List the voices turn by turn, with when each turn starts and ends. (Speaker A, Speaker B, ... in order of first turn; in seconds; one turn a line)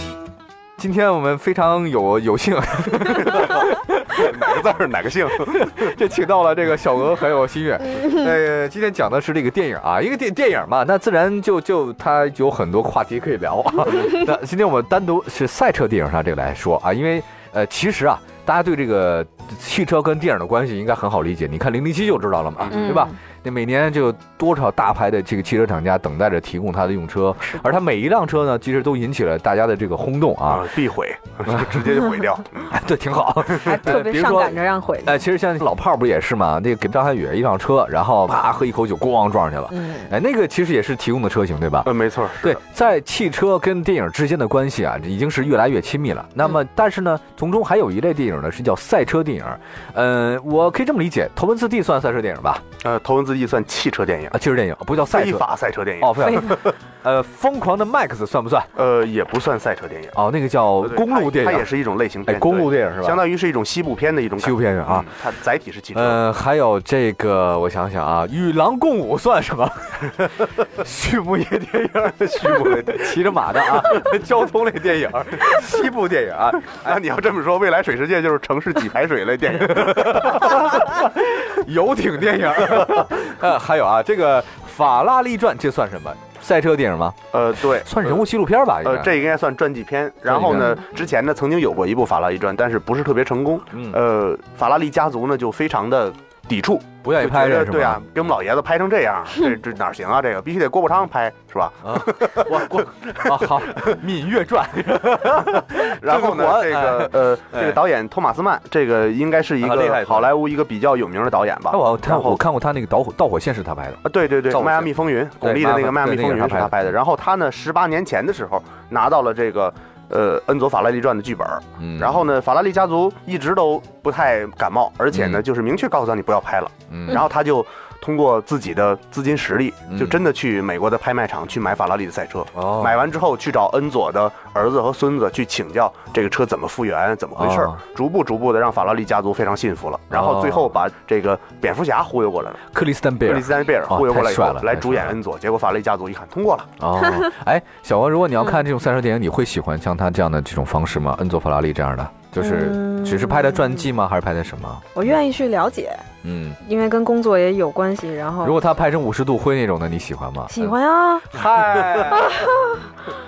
Speaker A: 0.8-4.3
Speaker B: 3.2-5.9
Speaker A: 5.4-30.7
Speaker B: 22.6-22.9
Speaker C: 22.7-23.2
Speaker C: 27.4-27.8
Speaker B: 30.5-32.7
Speaker A: 31.5-31.8
Speaker A: 32.7-41.9
Speaker C: 33.5-35.2
Speaker C: 39.7-40.1
Speaker B: 41.9-42.6
Speaker A: 42.4-52.6
Speaker B: 52.8-54.4
Speaker A: 54.3-55.5
Speaker B: 55.1-56.8
Speaker A: 56.0-58.7
Speaker B: 58.8-60.2
Speaker A: 60.1-61.7
Speaker B: 60.8-66.2
Speaker A: 62.3-63.2
Speaker A: 64.4-65.1
Speaker A: 65.9-77.0
Speaker B: 72.4-73.0
Speaker B: 76.8-80.6
Speaker A: 79.5-87.2
Speaker B: 87.3-88.3
Speaker A: 87.8-89.1
Speaker B: 88.8-103.7
Speaker A: 90.3-91.0
Speaker A: 93.7-94.0
Speaker A: 97.0-98.0
Speaker A: 101.8-107.8
Speaker B: 105.8-112.4
Speaker A: 109.6-110.3
Speaker A: 111.7-116.8
Speaker B: 114.0-142.6
Speaker A: 121.8-122.2
Speaker A: 125.1-125.4
Speaker A: 126.9-127.2
Speaker A: 129.9-130.2
Speaker A: 132.6-133.0
Speaker A: 137.4-137.8
Speaker A: 140.1-140.7
Speaker A: 142.7-145.2
Speaker B: 143.2-146.7
Speaker A: 146.8-154.9
Speaker C: 152.4-153.9
Speaker C: 154.9-156.0
Speaker A: 156.2-156.6
Speaker C: 156.6-158.6
Speaker A: 158.4-160.8
Speaker C: 160.5-161.3
Speaker A: 161.3-162.6